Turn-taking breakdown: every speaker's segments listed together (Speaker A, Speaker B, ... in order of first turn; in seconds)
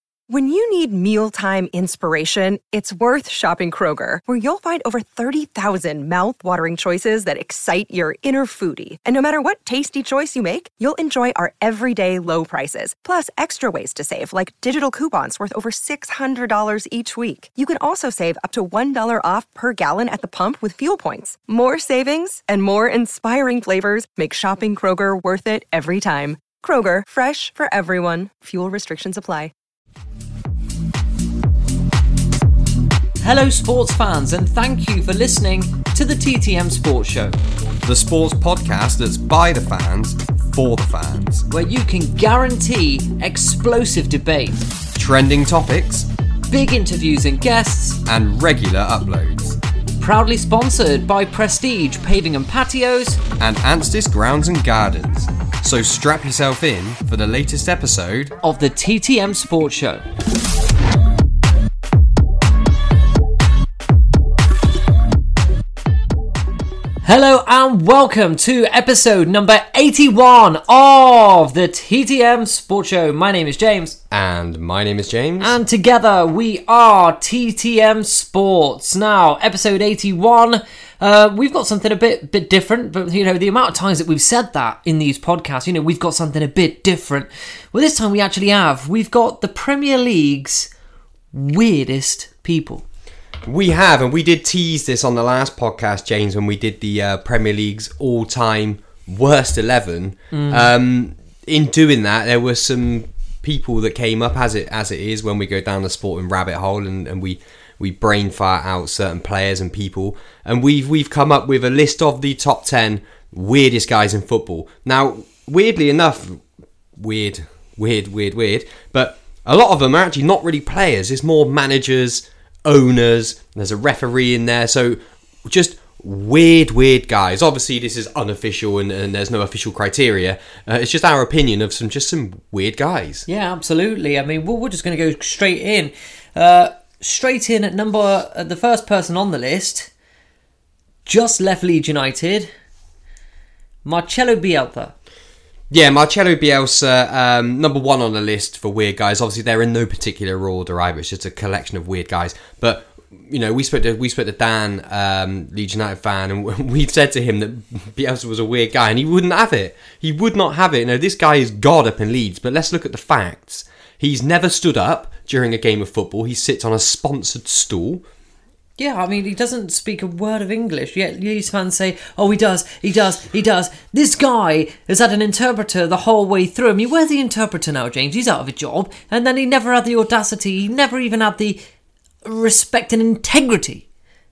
Speaker A: 0.3-29.5
Speaker B: 33.2-37.4, 41.5-44.7, 46.5-48.0, 50.0-53.2, 58.4-60.0, 67.0-74.0, 75.4-90.7, 91.3-92.8, 100.3-100.7, 133.3-139.9, 141.1-142.5, 143.8-144.9, 168.8-181.6, 182.2-183.8
Speaker C: 37.9-41.5, 45.0-46.1, 48.0-49.6, 53.4-58.4, 74.1-75.6, 93.5-116.4, 117.0-133.3, 145.7-168.0